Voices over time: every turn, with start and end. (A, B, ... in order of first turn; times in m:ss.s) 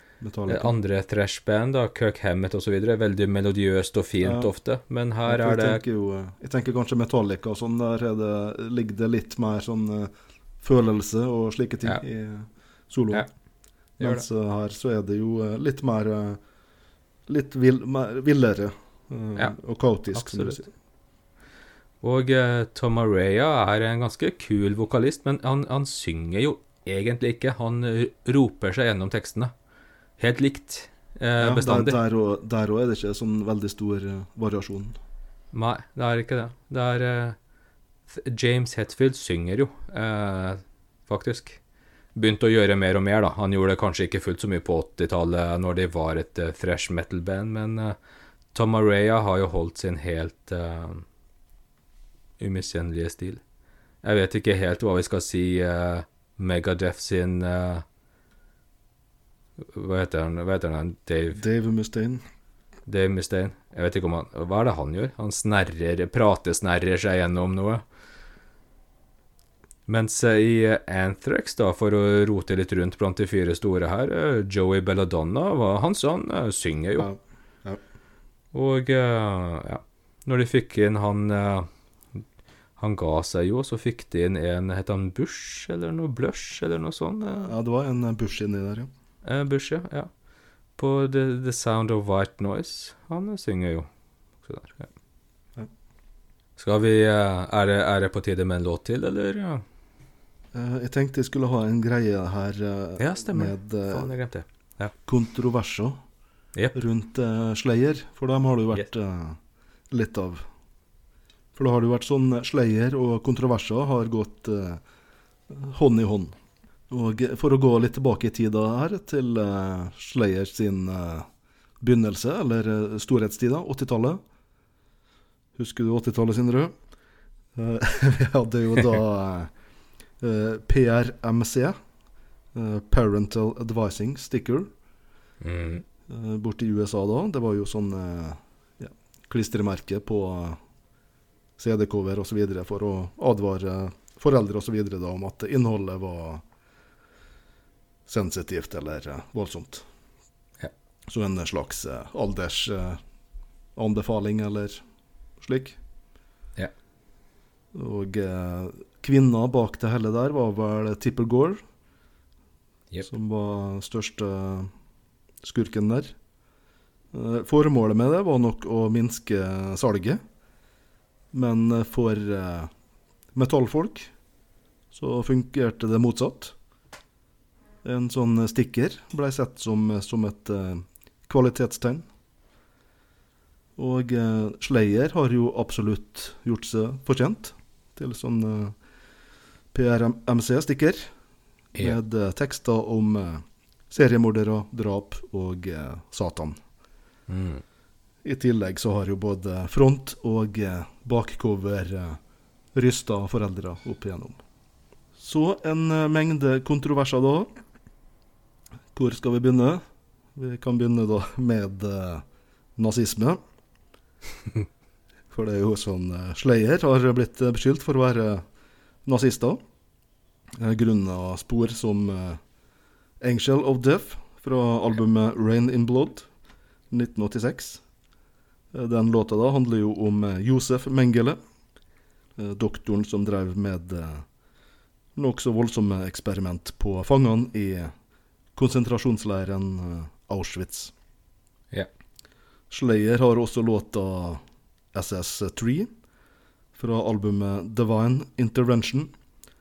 0:00.2-0:00.7 A
0:00.5-0:05.8 B
0:04.2-0:04.5 A
0:05.3-0:10.1 A
0:10.6-0:13.3 A
0:14.0-0:14.3 B
0:14.0-0:16.4 A
0:17.3-0:20.7 A
0:20.1-0:20.6 B
0:22.0-0:29.5 B
0:30.2-0:32.0 B
0:31.4-0:35.0 A
0:35.5-0:37.4 B
0:38.1-0:41.6 B
0:42.2-0:48.0 B
0:48.5-0:51.0 B
0:52.4-0:53.4 B
0:54.0-0:57.8 B
0:59.7-1:01.4 B
1:01.3-1:02.2 A
1:02.9-1:07.8 B
1:09.9-1:17.1 B
1:17.0-1:17.8 A
1:18.5-1:22.2 B
1:22.8-1:27.5 B
1:27.4-1:28.9 A
1:29.2-1:30.1 B
1:30.8-1:33.9 B
1:34.4-1:34.9 B
1:36.6-1:39.6 B
1:40.5-1:44.1 A
1:43.0-1:44.9 B
1:45.1-1:46.0 A
1:46.7-1:49.4 A
1:49.9-1:50.4 A
1:51.6-1:54.8 A
1:55.5-1:56.4 A
1:56.9-2:01.3 A
2:01.8-2:04.2 A
2:05.6-2:06.7 A
2:07.6-2:09.5 A
2:10.2-2:11.8 A
2:12.5-2:14.7 A
2:15.4-2:15.8 B
2:16.1-2:20.6 A
2:21.6-2:26.4 A
2:28.1-2:29.8 A
2:31.1-2:33.0 A
2:33.8-2:34.8 A
2:35.4-2:35.8 A
2:37.7-2:41.6 A
2:43.0-2:44.7 A
2:45.4-2:46.1 A
2:47.1-2:50.2 A
2:51.3-2:52.7 A
2:53.3-2:54.1 A
2:54.9-2:56.6 A
2:57.8-3:02.1 A
3:03.8-3:08.8 A
3:09.7-3:11.1 A
3:11.7-3:16.6 A
3:17.3-3:17.6 B
3:18.2-3:22.2 A
3:22.7-3:24.4 A
3:25.2-3:27.5 A
3:28.9-3:29.8 A
3:30.4-3:32.2 A
3:32.8-3:33.4 A
3:35.3-3:38.4 A
3:39.0-3:39.6 A
3:40.5-3:42.4 A
3:43.2-3:46.3 A
3:46.9-3:47.8 A
3:48.7-3:51.4 A
3:52.4-3:54.2 A
3:55.2-3:57.9 A
3:58.6-4:00.9 A
4:02.7-4:04.4 A
4:04.9-4:05.9 A
4:06.8-4:09.1 A